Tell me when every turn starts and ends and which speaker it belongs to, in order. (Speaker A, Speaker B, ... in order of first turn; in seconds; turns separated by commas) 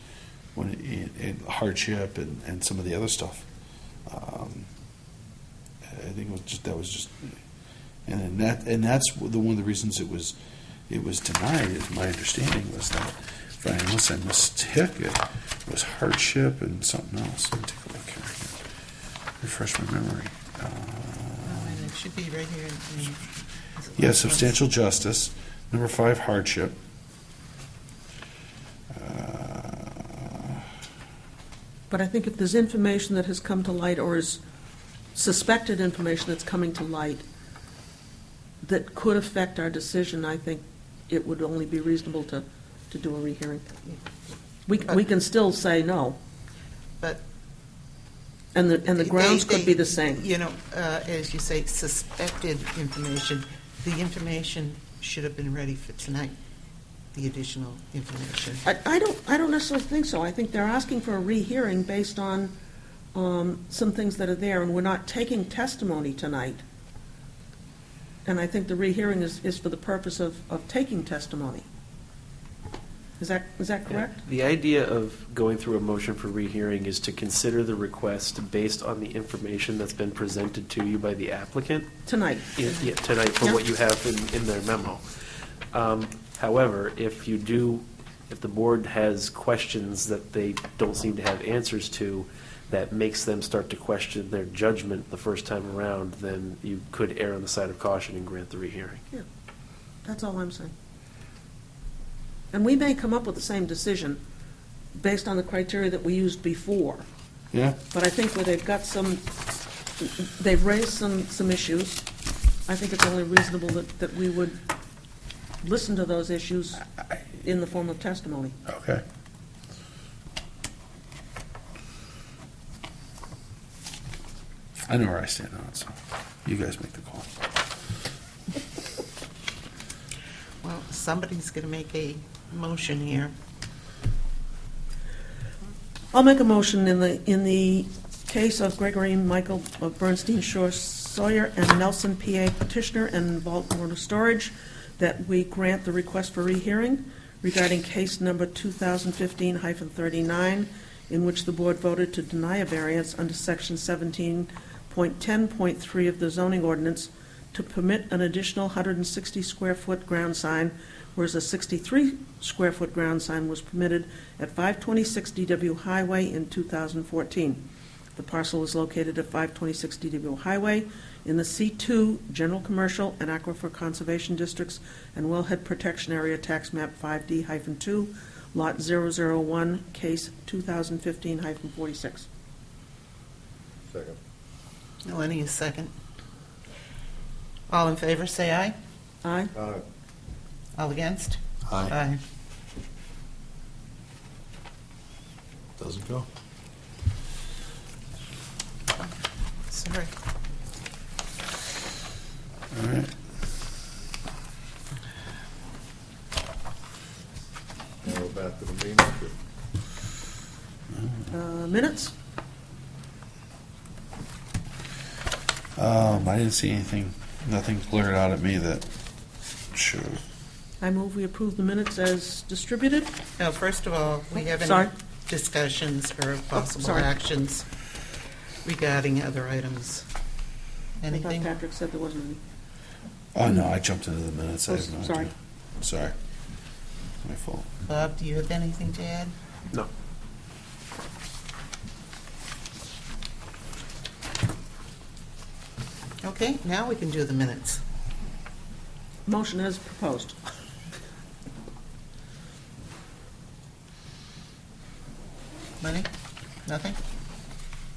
Speaker A: 0.5-3.5, Speaker A: 4.0-4.7, Speaker A: 5.9-7.3, Speaker A: 8.1-10.3, Speaker A: 10.9-18.6, Speaker A: 19.4-21.8, Speaker B: 21.4-23.2, Speaker B: 23.8-24.4, Speaker A: 23.9-26.8, Speaker A: 28.9-30.6, Speaker C: 31.9-34.4, Speaker C: 35.1-37.2, Speaker C: 38.6-43.7, Speaker C: 44.6-46.2, Speaker C: 48.5-50.3, Speaker B: 49.0-56.3, Speaker B: 57.1-58.6, Speaker C: 58.6-62.5, Speaker C: 63.1-66.6, Speaker C: 68.2-71.7, Speaker C: 73.2-74.2, Speaker D: 73.9-81.9, Speaker C: 82.0-82.5, Speaker D: 82.5-85.0, Speaker D: 85.7-99.0, Speaker C: 100.0-100.7, Speaker C: 102.5-104.2, Speaker C: 104.9-107.0, Speaker A: 107.5-107.8, Speaker C: 107.9-109.3, Speaker C: 110.0-112.0, Speaker C: 112.7-114.6, Speaker C: 115.6-116.8, Speaker C: 117.4-118.5, Speaker A: 118.7-119.0, Speaker A: 124.9-125.9, Speaker A: 126.4-127.3, Speaker B: 130.6-133.3, Speaker C: 136.1-167.6, Speaker C: 168.2-182.3, Speaker E: 183.9-184.2, Speaker B: 185.0-185.9, Speaker B: 187.7-188.8, Speaker C: 189.2-189.5, Speaker E: 189.5-189.8, Speaker B: 190.8-192.2, Speaker A: 191.7-191.9, Speaker A: 195.8-196.3, Speaker B: 199.7-200.1, Speaker A: 202.7-203.1, Speaker E: 208.0-209.3, Speaker A: 210.9-211.3, Speaker C: 211.3-212.1, Speaker A: 215.8-218.9, Speaker A: 219.7-220.2, Speaker C: 220.8-223.2, Speaker B: 223.4-227.6, Speaker C: 224.3-224.9, Speaker C: 226.5-227.2, Speaker B: 228.6-230.1, Speaker B: 231.0-231.5, Speaker C: 231.1-232.4, Speaker A: 233.3-236.1, Speaker C: 234.7-235.3, Speaker A: 237.2-237.7, Speaker B: 237.8-239.3, Speaker B: 246.2-247.8, Speaker C: 249.2-250.4, Speaker B: 255.8-256.1, Speaker B: 256.6-257.0